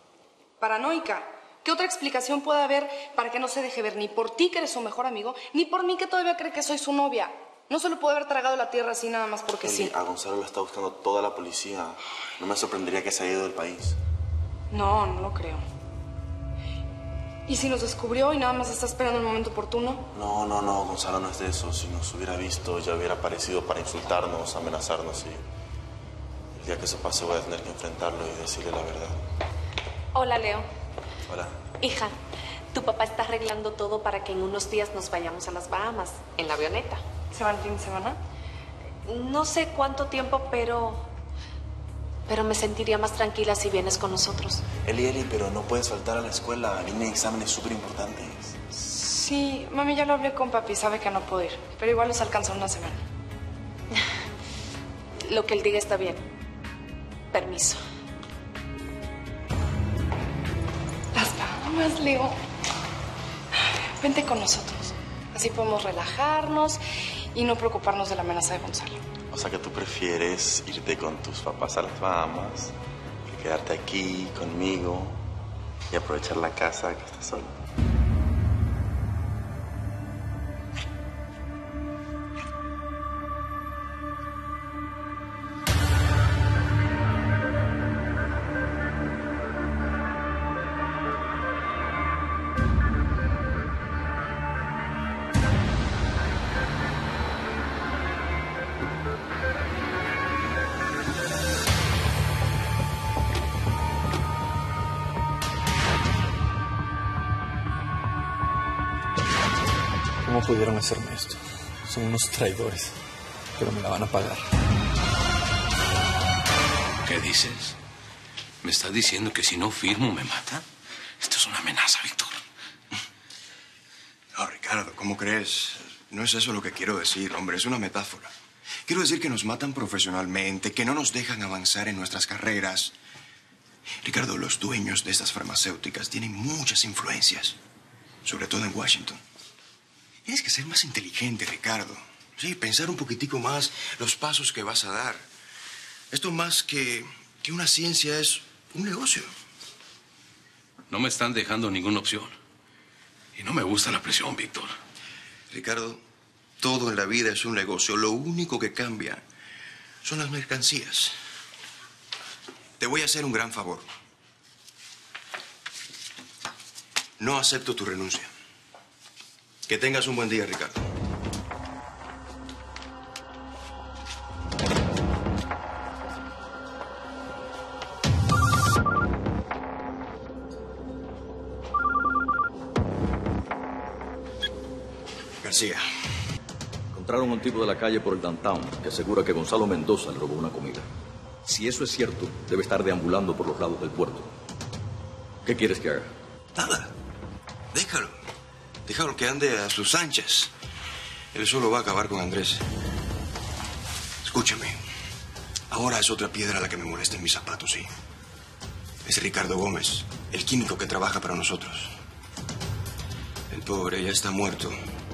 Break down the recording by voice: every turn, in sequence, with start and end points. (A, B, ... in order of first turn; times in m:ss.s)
0:00.6-0:09.9 A
0:09.6-0:14.0 B
0:14.7-0:15.6 A
0:17.5-0:20.0 A
0:20.1-0:25.4 B
0:26.5-0:29.2 B
0:30.1-0:30.7 C
0:31.3-0:31.5 B
0:31.8-0:32.1 C
0:32.7-0:37.0 C
0:37.3-0:38.2 A
0:39.0-0:41.1 C
0:42.3-0:44.6 C
0:44.8-0:48.5 B
0:48.7-0:53.0 A
0:55.2-0:56.2 C
0:57.3-0:57.8 C
1:01.1-1:02.4 A
1:04.0-1:06.8 A
1:07.3-1:09.0 A
1:09.3-1:12.7 B
1:13.2-1:15.2 B
1:15.9-1:17.5 B
1:50.2-1:53.0 D
1:53.6-1:54.4 D
1:57.0-1:57.7 E
1:58.6-2:00.6 E
2:01.2-2:02.3 E
2:04.3-2:08.3 F
2:08.8-2:12.9 F
2:14.0-2:17.6 F
2:18.2-2:19.2 F
2:20.2-2:25.2 F
2:26.1-2:29.3 F
2:30.9-2:32.3 E
2:33.4-2:34.7 E
2:35.5-2:36.0 F
2:36.6-2:39.2 F
2:40.0-2:41.1 F
2:42.8-2:43.9 F
2:47.2-2:48.3 F
2:49.7-2:50.9 F
3:05.4-3:05.8 F
3:06.9-3:10.9 G
3:11.4-3:14.3 G
3:15.4-3:16.1 G
3:16.5-3:16.9 F
3:17.7-3:18.2 F
3:18.8-3:20.5 F
3:21.3-3:22.6 F
3:24.2-3:24.8 F
3:25.7-3:27.9 F
3:29.0-3:31.9 F
3:33.5-3:34.8 F